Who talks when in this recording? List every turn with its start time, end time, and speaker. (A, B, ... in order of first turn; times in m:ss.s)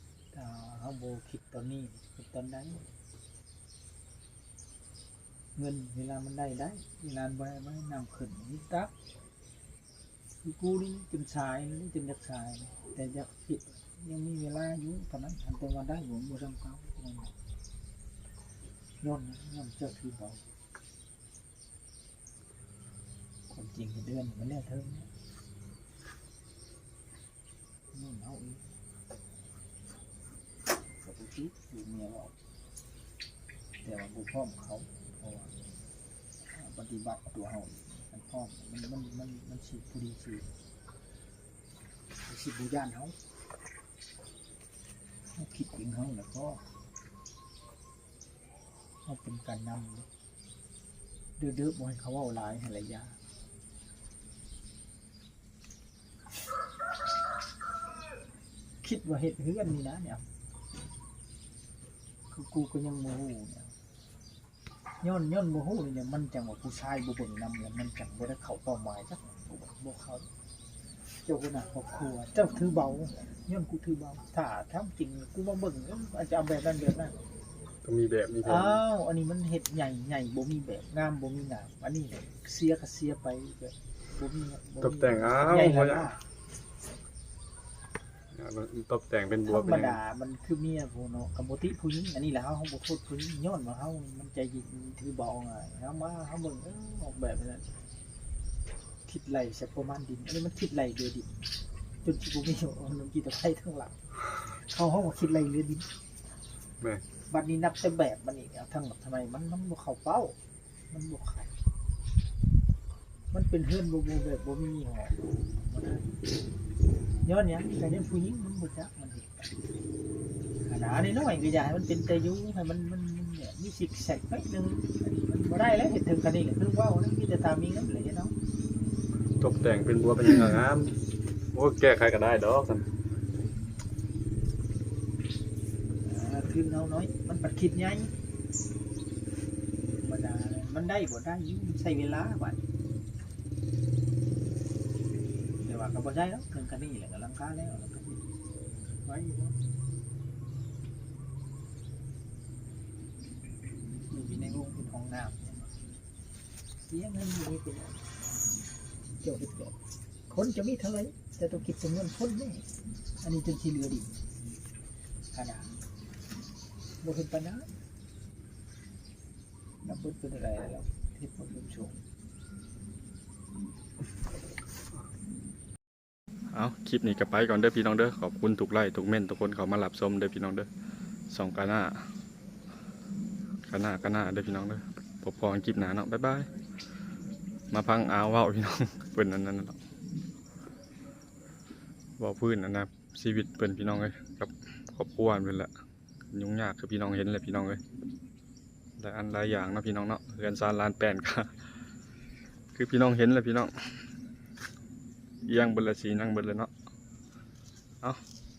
0:00.3-0:02.8 A
0:05.6-0:08.9 A
0:10.4-0:17.3 A
0:19.0-0:20.4 A
0:23.5-0:25.1 A
0:27.9-0:28.6 A
0:31.0-0:32.3 A
0:33.8-0:35.5 A
0:36.5-0:40.5 A
0:42.2-0:43.2 A
0:45.3-0:46.6 A
0:49.0-0:50.1 A
0:51.4-0:53.2 A
0:58.8-1:00.3 A
1:02.3-1:03.7 A
1:05.0-1:10.3 A
1:11.1-1:17.2 A
1:17.8-1:18.8 B
1:18.4-1:26.2 A
1:24.8-1:26.1 B
1:28.3-1:30.0 B
1:29.4-1:37.7 A
1:39.0-1:41.5 A
1:42.0-1:45.9 A
1:47.3-1:50.4 A
1:50.9-1:51.5 A
1:53.3-1:56.1 A
1:57.2-1:59.5 A
2:00.6-2:08.3 A
2:09.4-2:12.9 B
2:16.0-2:18.1 A
2:20.0-2:22.6 A
2:25.6-2:28.2 A
2:29.0-2:29.5 A
2:34.0-2:35.8 A
2:36.9-2:38.1 A
2:39.2-2:39.8 A
2:40.3-2:42.7 A
2:43.2-2:44.2 A
2:45.3-2:45.8 A
2:47.0-2:47.7 A
2:49.8-2:52.0 A
2:56.5-3:00.7 B
3:01.3-3:02.1 B
3:03.6-3:06.5 B
3:07.7-3:09.8 B
3:12.2-3:15.7 B
3:16.3-3:17.8 B
3:19.0-3:21.7 B
3:22.7-3:24.0 B
3:25.4-3:26.7 B